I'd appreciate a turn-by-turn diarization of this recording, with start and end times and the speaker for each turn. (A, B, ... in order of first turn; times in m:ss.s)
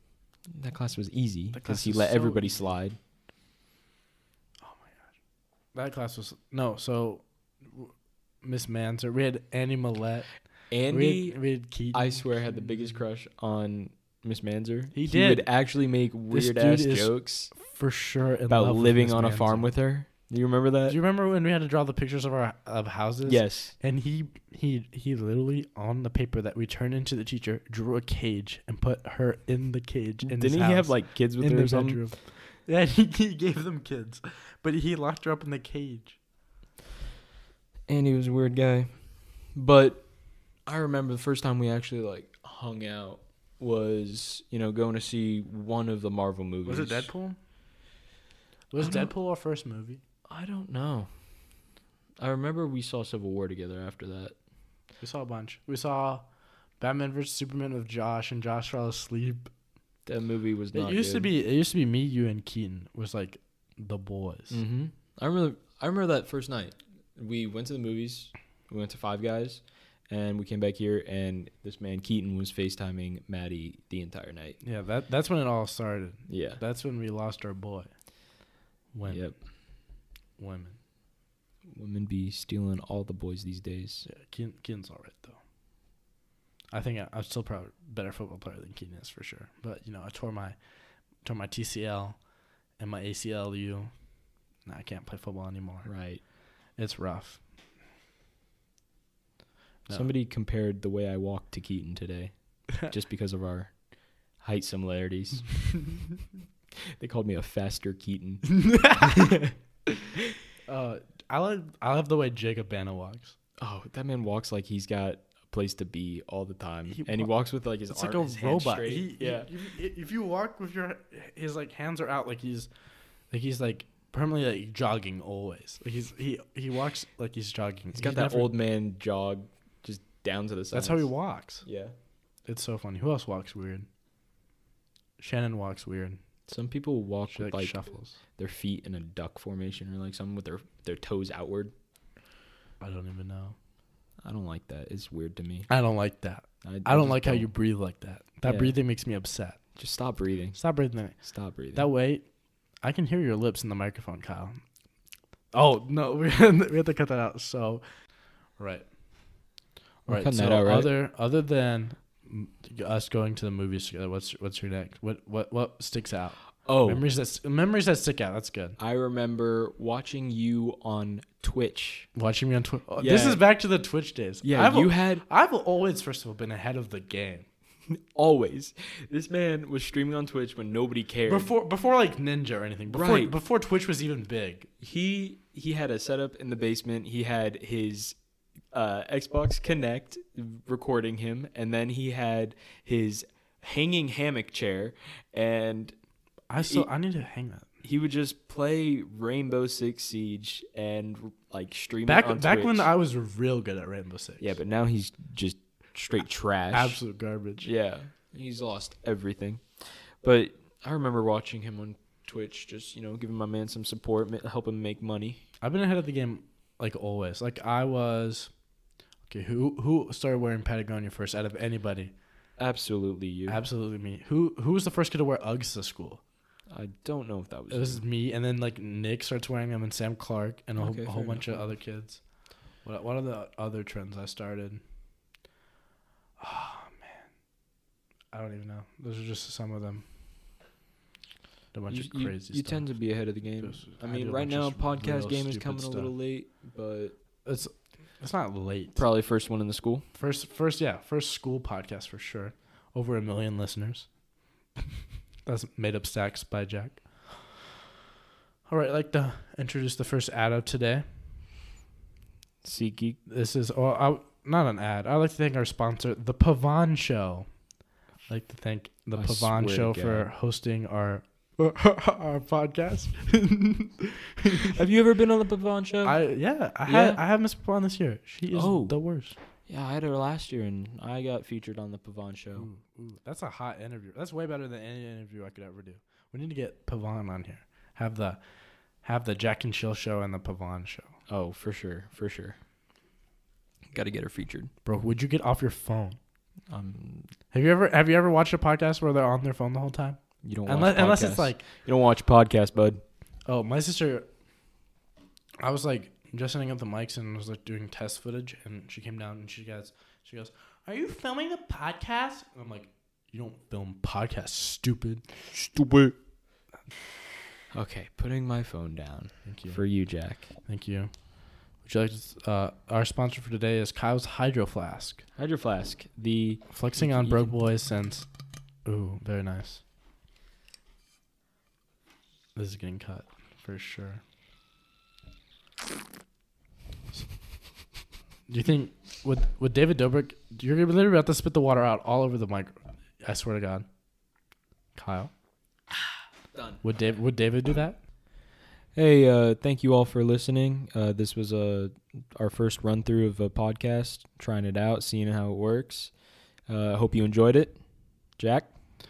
0:00.5-0:03.0 A
0:01.5-0:02.7 B
0:04.6-0:05.1 B
0:05.7-0:10.3 B
0:10.7-0:11.4 A
0:10.9-0:12.3 B
0:11.9-0:17.5 A
0:14.9-0:15.5 B
0:16.3-0:19.7 B
0:18.5-0:21.0 A
0:20.9-0:36.2 B
0:23.2-0:23.7 A
0:30.2-0:32.1 A
0:37.9-0:40.0 A
0:40.6-0:47.1 A
0:46.6-0:47.4 B
0:48.7-0:50.0 B
0:48.8-0:49.1 A
0:50.3-0:51.1 A
0:52.2-0:54.3 A
0:55.0-0:56.2 B
0:56.8-0:59.5 B
1:00.0-1:01.3 A
1:00.7-1:04.6 B
1:04.5-1:14.6 A
1:14.6-1:17.9 B
1:16.3-1:16.6 A
1:18.9-1:19.2 B
1:19.1-1:19.4 A
1:20.4-1:20.8 B
1:21.7-1:24.0 A
1:24.0-1:25.4 B
1:26.7-1:30.6 B
1:31.2-1:32.2 B
1:32.8-1:33.9 B
1:34.6-1:35.9 B
1:35.8-1:36.2 A
1:36.8-1:37.4 B
1:39.9-1:43.7 A
1:44.4-1:45.8 A
1:46.8-1:49.5 A
1:48.5-1:49.3 B
1:50.7-1:53.4 B
1:53.6-1:59.5 A
1:56.9-1:57.3 B
1:57.9-2:02.7 B
2:03.3-2:08.5 B
2:08.0-2:11.1 A
2:10.7-2:11.6 B
2:11.6-2:11.9 A
2:12.4-2:13.9 B
2:15.2-2:16.2 B
2:16.5-2:17.8 A
2:17.3-2:18.2 B
2:18.4-2:21.7 A
2:22.8-2:23.6 B
2:24.2-2:25.7 A
2:25.7-2:29.6 B
2:26.6-2:27.5 A
2:28.4-2:28.7 A
2:29.8-2:30.6 A
2:30.5-2:31.2 B
2:31.2-2:31.9 A
2:31.7-2:32.2 B
2:32.8-2:34.6 B
2:35.5-2:37.8 B
2:38.6-2:38.9 B
2:40.0-2:48.8 B
2:40.1-2:40.9 A
2:46.6-2:47.0 A
2:48.8-2:52.1 A
2:52.1-2:57.5 B
2:53.0-2:53.4 A
2:54.4-2:55.2 A
2:58.1-3:01.5 A
3:01.3-3:04.7 B
3:02.9-3:03.3 A
3:04.8-3:08.2 A
3:08.7-3:15.9 A
3:16.5-3:17.7 B
3:16.6-3:16.9 A
3:17.8-3:22.9 A
3:22.1-3:24.5 B
3:24.4-3:27.0 A
3:26.7-3:27.7 B
3:27.6-3:35.4 A
3:35.6-3:38.5 B
3:39.3-3:42.1 B
3:42.6-3:43.6 A
3:43.5-3:46.2 B
3:46.7-3:48.0 A
3:47.7-3:52.2 B
3:50.8-3:51.6 A
3:52.8-3:54.8 B
3:56.4-3:57.3 B
3:58.3-4:00.0 B
4:01.7-4:02.9 B
4:01.9-4:07.2 A
4:03.6-4:06.1 B
4:07.4-4:09.0 B
4:09.0-4:10.0 A
4:10.1-4:14.1 B
4:15.4-4:17.5 B
4:18.7-4:21.0 B
4:22.6-4:23.2 A
4:23.3-4:27.5 B
4:28.3-4:34.8 B
4:29.1-4:30.3 A
4:34.6-4:36.2 A
4:36.0-4:39.4 B
4:36.9-4:37.2 A
4:38.5-4:38.9 A
4:39.7-4:42.7 A
4:42.5-4:48.4 B
4:49.0-4:51.1 B
4:51.3-4:52.6 A
4:53.9-4:54.7 A
4:54.8-4:56.2 B
4:56.7-4:57.3 A
4:57.5-5:01.6 B
5:00.4-5:03.0 A
5:03.4-5:04.3 B
5:05.6-5:15.2 B
5:15.5-5:16.2 A
5:17.7-5:20.5 A
5:19.4-5:19.8 B
5:20.6-5:21.1 B
5:21.8-5:25.2 B
5:25.4-5:27.5 A
5:26.7-5:28.3 B
5:28.8-5:29.8 B
5:32.6-5:34.2 B
5:38.5-5:43.8 B
5:45.0-5:45.3 B
5:46.5-5:46.8 A
5:46.8-5:48.0 B
5:48.9-5:56.1 A
5:56.7-5:57.8 A
5:58.4-5:58.7 A